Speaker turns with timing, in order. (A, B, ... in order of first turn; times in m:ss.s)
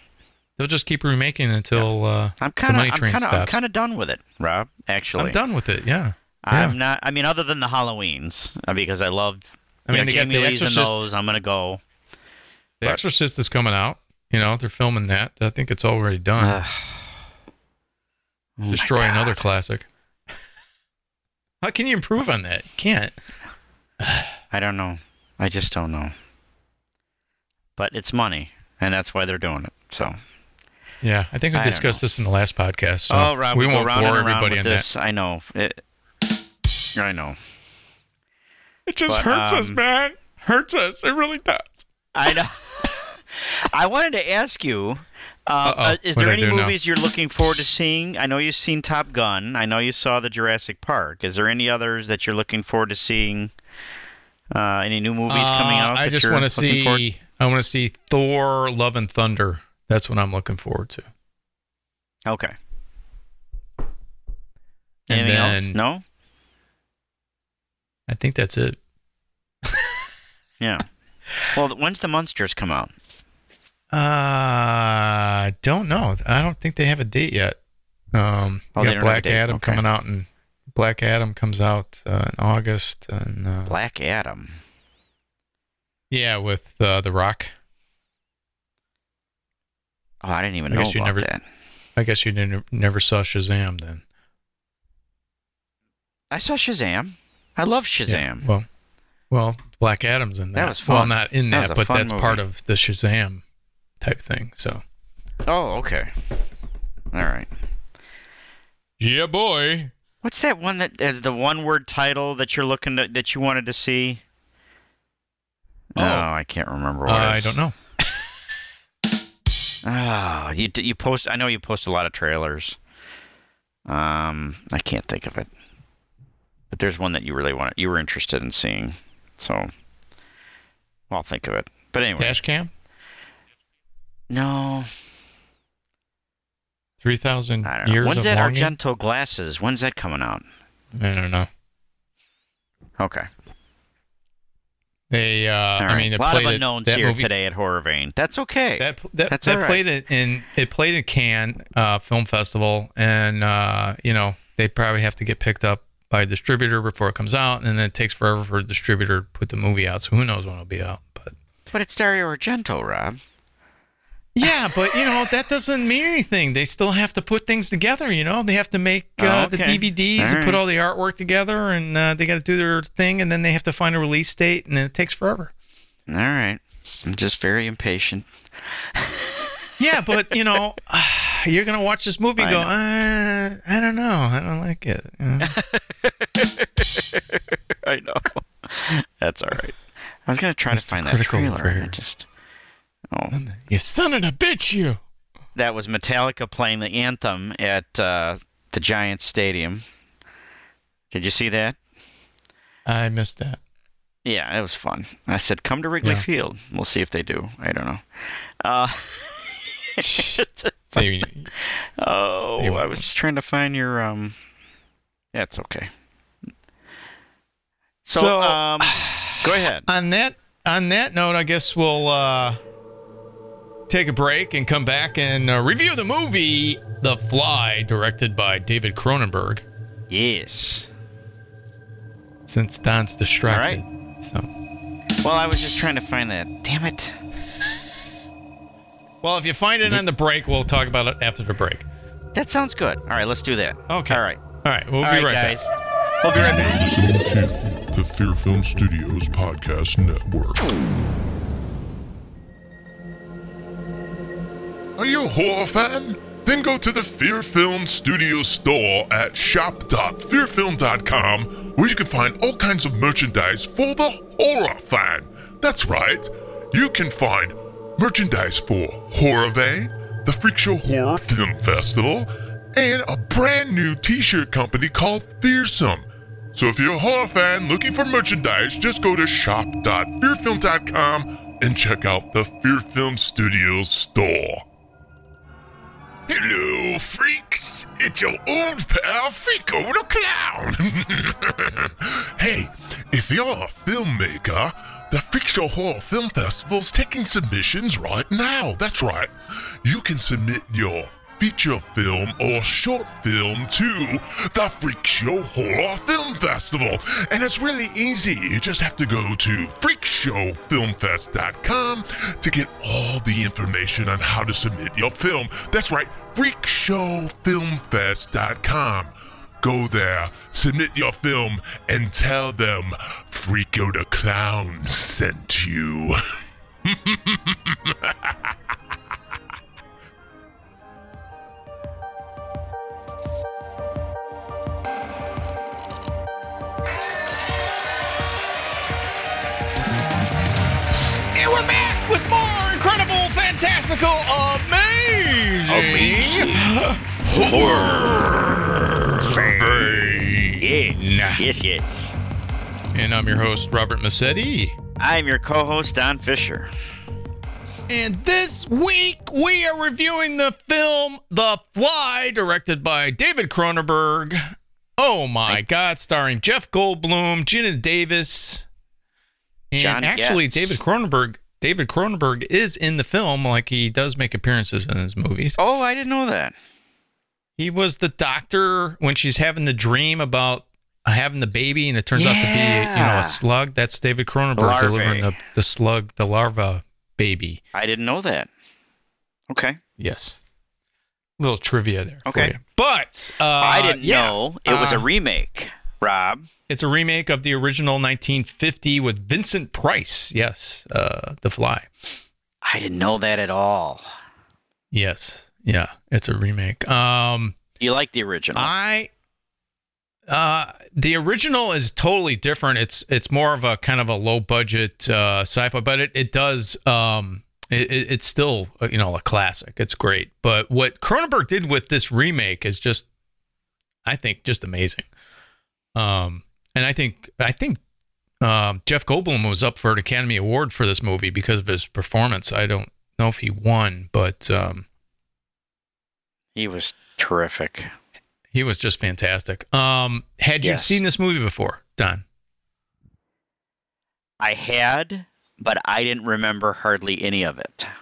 0:00.6-0:03.5 A
0:01.7-0:05.4 B
0:05.2-0:06.8 A
0:06.4-0:11.8 B
0:09.9-0:11.1 A
0:12.8-0:16.6 A
0:16.4-0:17.0 B
0:18.6-0:19.4 B
0:18.7-0:19.9 A
0:21.6-0:23.2 A
0:24.0-0:24.4 A
0:24.5-0:26.1 B
0:27.8-0:30.2 B
0:31.0-0:34.8 A
0:31.5-0:32.0 B
0:33.1-0:35.8 B
0:37.0-0:37.4 B
0:38.8-0:41.8 A
0:39.1-0:39.8 B
0:42.1-0:53.5 B
0:45.6-0:46.7 A
0:54.5-0:57.0 B
0:55.3-1:01.1 A
1:02.2-1:02.5 B
1:05.1-1:05.8 A
1:05.1-1:06.0 B
1:08.1-1:08.8 A
1:09.6-1:10.0 A
1:11.5-1:12.9 B
1:13.9-1:17.6 A
1:18.1-1:23.7 A
1:18.8-1:19.8 B
1:23.7-1:24.6 B
1:26.1-1:27.5 A
1:30.2-1:31.4 B
1:30.7-1:31.3 A
1:32.0-1:34.0 A
1:36.3-1:38.4 B
1:38.1-1:38.7 A
1:39.3-1:43.4 A
1:40.5-1:42.4 B
1:44.0-1:44.8 A
1:45.4-1:46.1 B
1:47.1-1:47.5 B
1:49.0-1:49.9 A
1:50.2-1:54.2 B
1:55.9-1:57.6 B
1:56.0-1:56.3 A
1:57.0-1:57.7 A
1:59.8-2:02.8 B
2:03.9-2:05.5 B
2:06.7-2:09.7 B
2:11.1-2:12.4 B
2:12.2-2:12.7 A
2:14.3-2:14.9 B
2:17.0-2:18.7 A
2:17.6-2:20.4 B
2:20.9-2:21.5 A
2:23.0-2:23.3 B
2:25.1-2:27.3 A
2:25.8-2:29.8 B
2:28.8-2:41.4 A
2:41.7-2:43.2 B
2:44.3-2:55.5 A
2:49.2-2:50.6 B
2:56.1-2:58.3 B
2:58.9-2:59.5 B
2:59.8-3:05.5 A
3:02.4-3:02.7 B
3:05.4-3:12.3 B
3:10.7-3:12.0 A
3:13.3-3:15.0 A
3:15.6-3:19.8 B
3:21.1-3:21.8 B
3:22.8-3:23.6 A
3:24.2-3:34.3 B
3:30.0-3:30.4 A
3:30.9-3:31.5 A
3:32.6-3:33.0 A
3:35.3-3:35.9 B
3:38.0-3:39.9 B
3:38.1-3:42.6 A
3:43.9-3:49.6 A
3:50.1-3:50.9 B
3:52.5-3:54.5 A
3:53.5-3:53.8 B
3:55.2-3:57.2 B
3:59.2-4:01.9 A
4:02.3-4:04.4 B
4:03.9-4:05.6 A
4:05.0-4:05.7 B
4:06.2-4:06.7 B
4:06.3-4:10.7 C
4:15.0-4:44.6 C
4:46.3-5:26.1 C
5:26.8-5:28.5 C
5:41.3-5:51.4 A
5:45.7-5:46.7 B
5:47.3-5:48.4 B
5:49.2-5:49.9 B
5:50.6-5:52.1 B
5:52.9-5:54.8 A
5:55.0-5:56.7 B
5:57.9-6:08.7 A
6:09.7-6:15.6 A
6:09.8-6:10.8 B
6:15.6-6:16.5 B
6:17.6-6:27.6 A
6:22.1-6:23.4 B
6:24.6-6:25.3 B
6:27.7-6:28.5 B
6:29.5-6:29.8 B
6:30.0-6:30.4 A
6:31.4-6:35.1 A
6:32.2-6:32.6 B
6:33.6-6:36.4 B
6:36.7-6:42.2 A
6:42.6-6:44.0 B
6:44.9-6:47.6 A
6:47.8-6:48.7 B
6:48.6-6:49.1 A
6:50.3-7:03.1 A
7:04.0-7:05.1 A
7:05.9-7:07.8 A
7:08.4-7:14.8 A
7:16.6-7:17.9 B
7:18.5-7:22.2 A
7:20.6-7:21.0 B
7:24.4-7:27.9 B